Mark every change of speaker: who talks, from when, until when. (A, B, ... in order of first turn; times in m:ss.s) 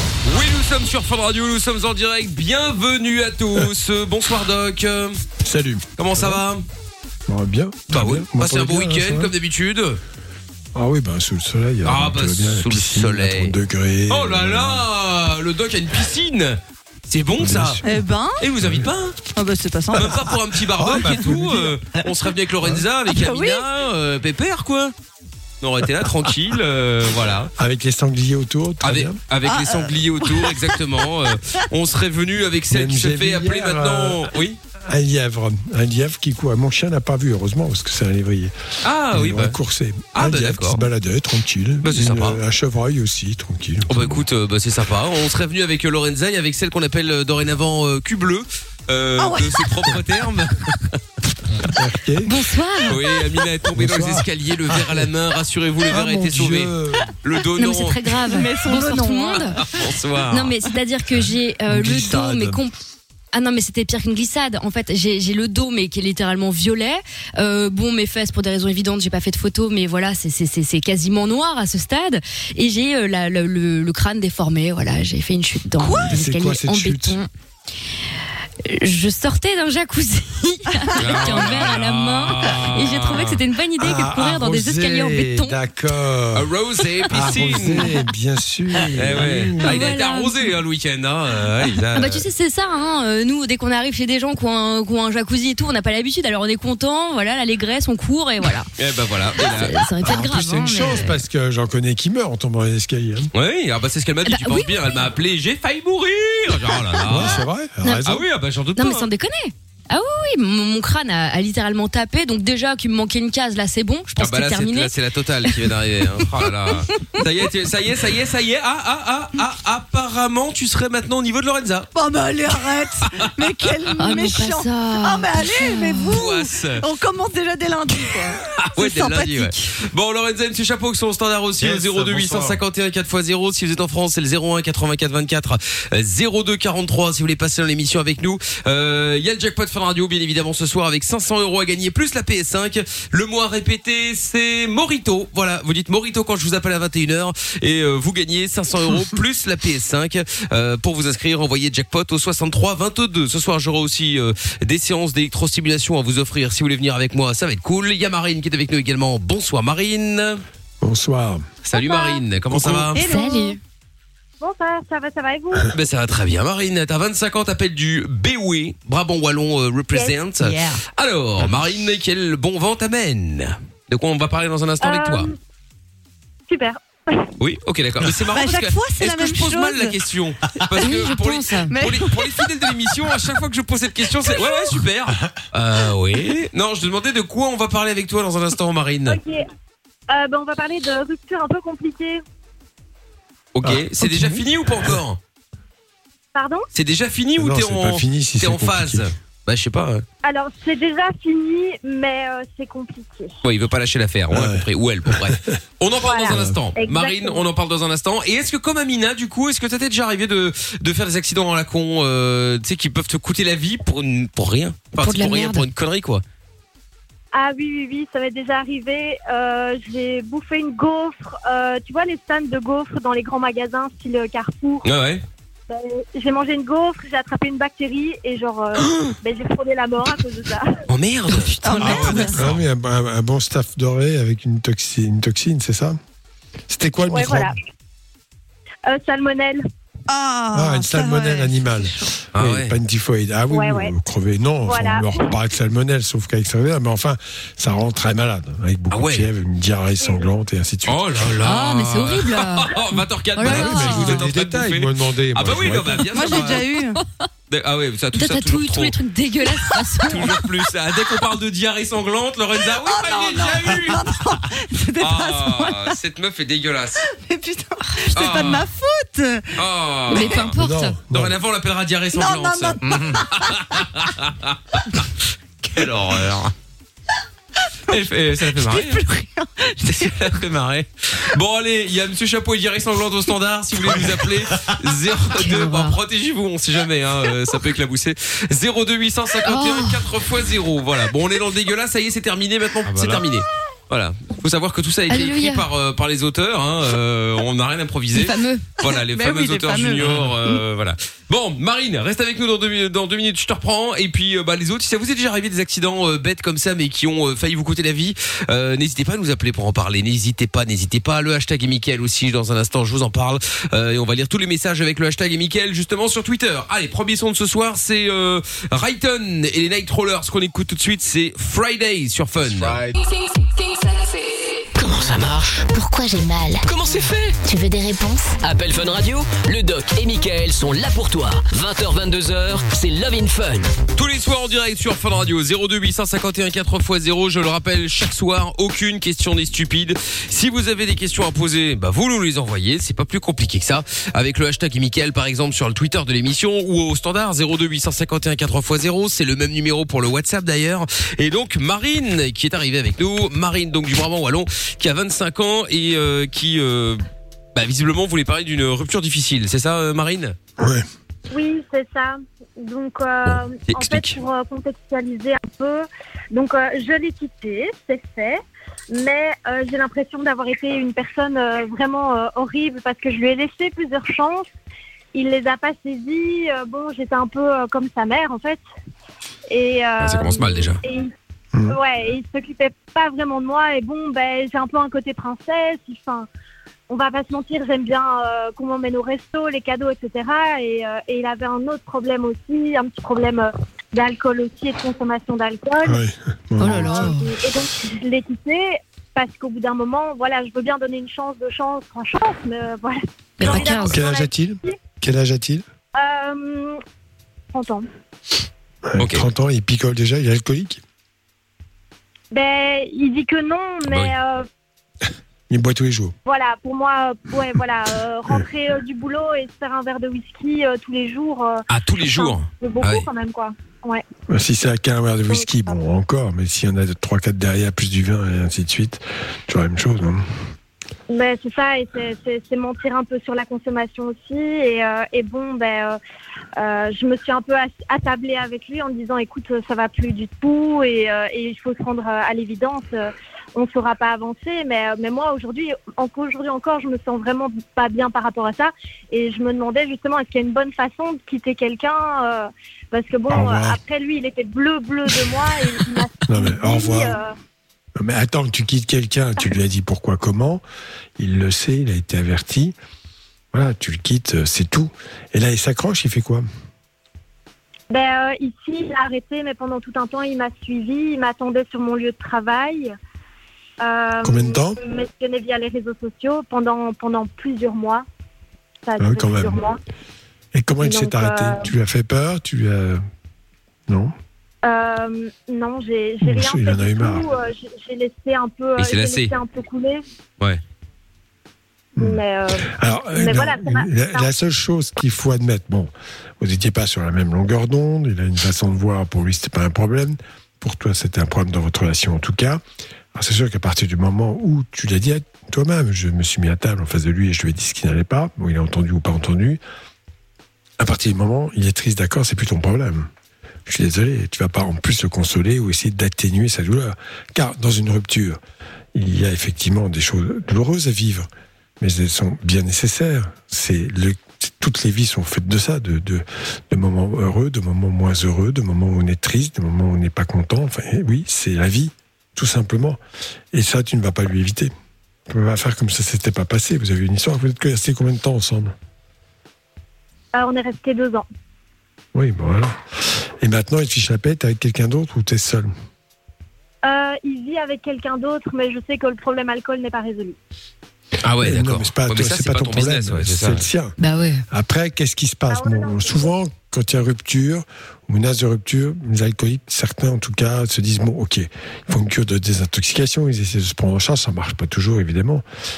0:00.2-0:05.2 A
0:05.4-0:06.4 B
0:06.0-0:06.6 A
0:07.3-0:09.3 B
0:07.9-0:10.0 A
0:10.7-0:14.9 B
0:11.8-0:13.5 A
0:14.1-0:17.8 A
0:17.4-0:18.0 B
0:17.8-0:18.4 C
0:18.4-0:19.2 A
0:18.6-0:18.9 B
0:19.4-0:20.4 C
0:19.9-0:24.9 A
0:20.7-0:21.8 B
0:23.1-0:23.7 C
0:25.6-0:27.5 A
0:27.6-0:29.2 B
0:28.8-0:34.6 A
0:29.4-0:31.4 C
0:32.7-0:34.3 B
0:34.8-0:38.5 B
0:38.8-0:39.6 A
0:39.1-0:44.2 B
0:40.1-0:40.8 A
0:41.8-0:42.4 A
0:43.9-0:51.0 A
0:49.2-0:50.0 C
0:51.6-0:52.3 B
0:52.3-0:53.0 D
0:52.9-0:58.1 A
0:53.7-0:55.1 B
0:55.9-0:57.1 B
0:57.5-0:59.6 D
0:58.2-0:59.9 C
0:59.6-1:00.5 A
1:00.3-1:02.7 D
1:01.2-1:02.6 B
1:03.3-1:17.3 D
1:15.8-1:16.2 C
1:16.0-1:17.2 B
1:18.6-1:25.6 D
1:20.7-1:21.4 C
1:21.0-1:23.4 A
1:23.8-1:26.5 B
1:26.3-1:27.9 A
1:27.1-1:29.6 B
1:28.9-1:32.2 A
1:29.6-1:30.5 D
1:31.9-1:38.7 D
1:38.8-1:39.9 A
1:39.3-1:41.2 D
1:40.0-1:43.3 B
1:43.3-1:47.4 A
1:44.2-1:45.0 D
1:46.7-1:47.0 D
1:47.0-1:48.2 B
1:47.8-1:48.2 D
1:48.0-1:49.1 A
1:48.8-1:54.9 D
1:54.2-2:01.9 A
1:55.4-1:56.2 D
2:01.9-2:09.8 C
2:04.0-2:06.2 D
2:06.0-2:06.8 A
2:08.7-2:40.4 A
2:11.6-2:12.6 B
2:40.8-2:41.5 B
2:41.6-2:43.1 A
2:41.7-2:42.2 E
2:42.5-2:42.9 B
2:42.6-2:43.6 C
2:43.0-2:43.6 D
2:44.4-2:45.7 E
2:45.7-2:55.3 A
2:50.0-2:50.8 C
2:54.8-2:55.4 E
2:56.5-2:57.3 E
2:57.4-3:09.2 A
2:58.2-3:00.0 C
3:00.6-3:03.1 C
3:00.8-3:01.7 D
3:04.2-3:04.8 C
3:09.0-3:09.4 E
3:10.1-3:12.2 E
3:13.5-3:15.2 A
3:13.6-3:15.0 B
3:16.3-3:16.6 E
3:16.7-3:20.0 A
3:17.4-3:19.1 B
3:20.2-3:23.3 E
3:23.4-3:36.2 A
3:24.3-3:25.5 B
3:26.0-3:27.4 E
3:26.3-3:26.6 B
3:35.0-3:35.7 D
3:37.3-3:44.8 E
3:44.8-3:45.2 A
3:45.7-3:50.8 E
3:48.8-3:49.1 A
3:50.9-3:52.6 A
3:51.6-3:52.4 C
3:51.8-3:56.0 B
3:56.7-3:57.5 B
3:57.1-3:57.6 E
3:58.9-3:59.6 E
4:00.1-4:02.0 C
4:00.5-4:11.3 B
4:02.3-4:02.7 A
4:03.5-4:03.9 E
4:04.7-4:05.3 E
4:08.9-4:09.3 A
4:10.9-4:16.6 A
4:11.4-4:13.5 D
4:13.4-4:14.2 C
4:13.4-4:16.6 B
4:16.1-4:17.0 C
4:17.5-4:18.9 A
4:18.1-4:20.5 D
4:20.0-4:20.3 C
4:20.0-4:24.2 A
4:22.6-4:26.0 C
4:25.0-4:27.0 A
4:27.0-4:30.5 C
4:28.1-4:28.7 A
4:29.6-4:30.6 A
4:30.1-4:31.0 D
4:30.6-4:31.3 B
4:31.1-4:35.0 A
4:32.1-4:33.9 C
4:35.7-4:36.5 A
4:37.9-4:39.0 A
4:37.9-4:40.4 C
4:39.8-5:22.8 A
4:45.3-4:46.0 D
4:49.4-4:50.0 D
4:55.1-4:55.7 D
4:58.1-4:58.7 D
4:58.8-5:00.6 C
5:24.8-5:25.1 F
5:24.8-5:25.6 G
5:25.7-5:26.6 F
5:26.6-5:27.4 G
5:27.4-5:28.4 F
5:28.4-5:33.7 G
5:34.0-5:57.0 A
5:57.5-6:00.3 A
6:00.6-6:00.8 B
6:01.3-6:08.4 E
6:03.2-6:04.2 A
6:08.9-6:14.5 E
6:15.1-6:18.6 E
6:19.5-6:21.1 E
6:20.0-6:20.8 A
6:21.7-6:26.3 E
6:26.9-6:36.0 E
6:35.8-6:37.1 B
6:36.6-6:37.3 D
6:36.6-6:44.8 E
6:43.4-6:44.0 D
6:43.4-6:45.6 B
6:45.9-6:46.8 E
6:47.5-6:47.9 E
6:48.9-6:50.8 B
6:49.0-6:49.2 A
6:52.3-6:54.5 E
6:53.8-6:54.1 A
6:55.5-6:56.1 B
6:56.2-7:04.0 E
7:01.7-7:03.1 A
7:04.3-7:10.3 B
7:05.3-7:05.8 E
7:11.1-7:16.0 E
7:16.6-7:37.3 E
7:33.3-7:33.8 B
7:36.2-7:37.2 B
7:38.0-7:40.6 B
7:41.2-7:42.8 B
7:43.5-7:46.4 B
7:47.9-7:52.9 E
7:53.8-7:58.0 E
7:54.2-7:54.8 B
7:58.8-7:59.8 E
7:59.0-7:59.6 B
8:00.5-8:03.0 B
8:00.8-8:01.7 E
8:03.9-8:04.1 B
8:04.6-8:10.0 E
8:06.2-8:07.3 B
8:08.8-8:09.3 A
8:12.0-8:14.3 E
8:12.0-8:22.6 B
8:23.1-8:29.6 B
8:30.8-8:33.1 B
8:33.7-8:38.4 B
8:38.9-8:41.3 B
8:41.8-8:53.0 B
8:53.5-8:54.7 B
8:55.3-8:58.7 B
9:00.3-9:01.2 E
9:02.1-9:05.7 B
9:06.8-9:10.4 E
9:11.2-9:13.6 A
9:11.4-9:14.0 B
9:14.0-9:14.4 D
9:14.5-9:25.4 B
9:15.5-9:16.3 E